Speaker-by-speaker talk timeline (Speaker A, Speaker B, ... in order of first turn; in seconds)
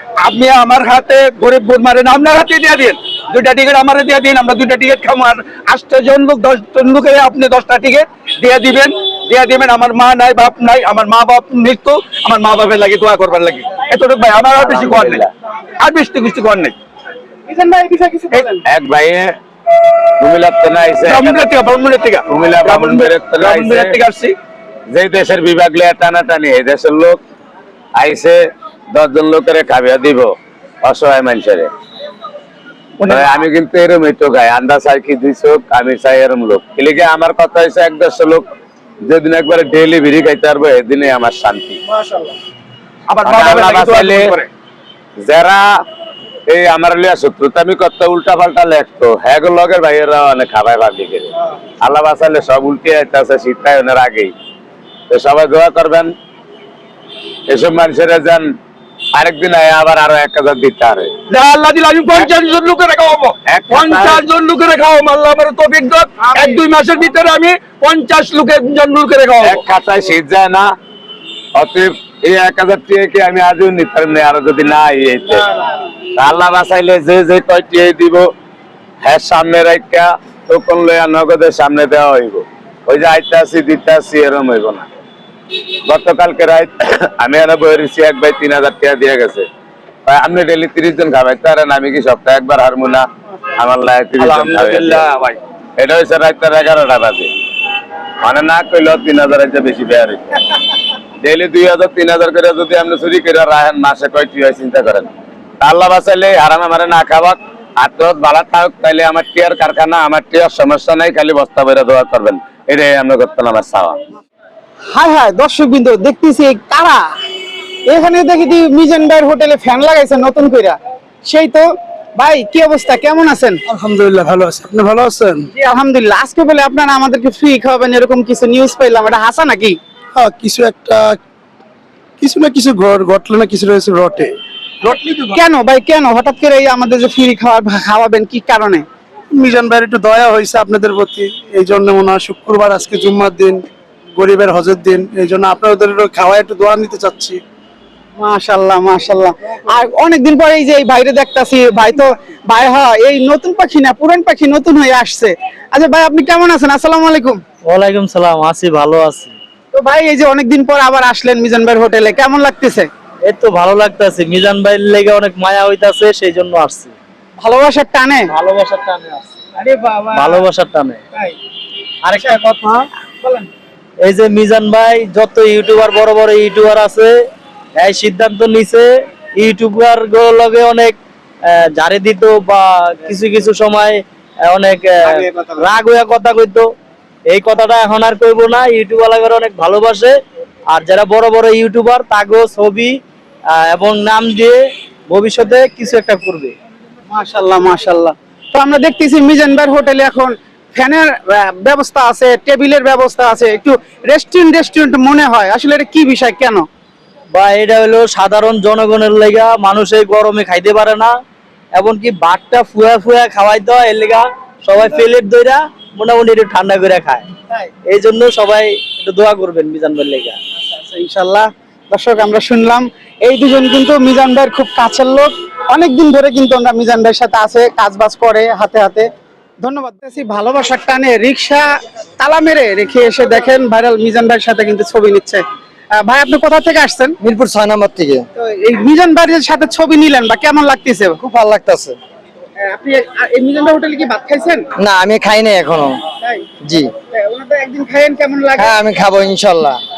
Speaker A: 0.2-15.2, 15.8-16.8, 21.1-24.3, 43.1-44.5, 61.3-69.6, 94.2-95.4
Speaker B: 14.6-15.3, 18.7-19.3, 20.2-21.5, 22.3-24.0, 24.9-27.2, 28.0-28.4, 28.9-30.3, 30.8-31.7, 33.0-38.5, 39.0-41.8, 43.2-44.3, 45.2-45.6, 46.5-51.3, 51.8-54.3, 55.1-56.1, 57.5-58.5, 59.1-61.1, 63.5-64.2, 69.4-70.7, 71.5-75.4, 76.2-78.3, 79.0-84.9, 85.8-89.5, 90.0-95.1, 95.8-97.3, 98.2-100.4, 101.2-105.1, 105.6-114.0
Speaker C: 17.5-18.6, 114.9-117.0, 117.9-123.6, 125.5-129.8, 135.3-138.8, 148.2-157.4, 159.7-162.9, 167.4-168.3, 169.6-170.4, 172.1-173.5, 185.1-185.6, 197.1-206.6, 220.7-229.1, 229.6-231.7, 232.2-235.4, 235.9-237.2, 238.3-241.2, 242.6-244.7, 246.2-246.5, 247.1-248.8
Speaker D: 123.7-125.5, 130.1-131.2, 132.2-135.2, 139.3-143.6, 144.1-147.4
Speaker E: 157.7-159.3, 163.3-166.9, 168.3-169.3, 170.1-171.0, 172.0-172.4, 174.0-177.1, 177.7-180.9, 181.5-186.7, 187.3-190.2, 190.7-193.0, 193.6-196.5, 207.3-211.1, 211.8-217.3, 217.9-220.4
Speaker F: 237.2-238.2, 241.2-242.0, 244.8-246.0, 246.6-246.9, 248.6-249.8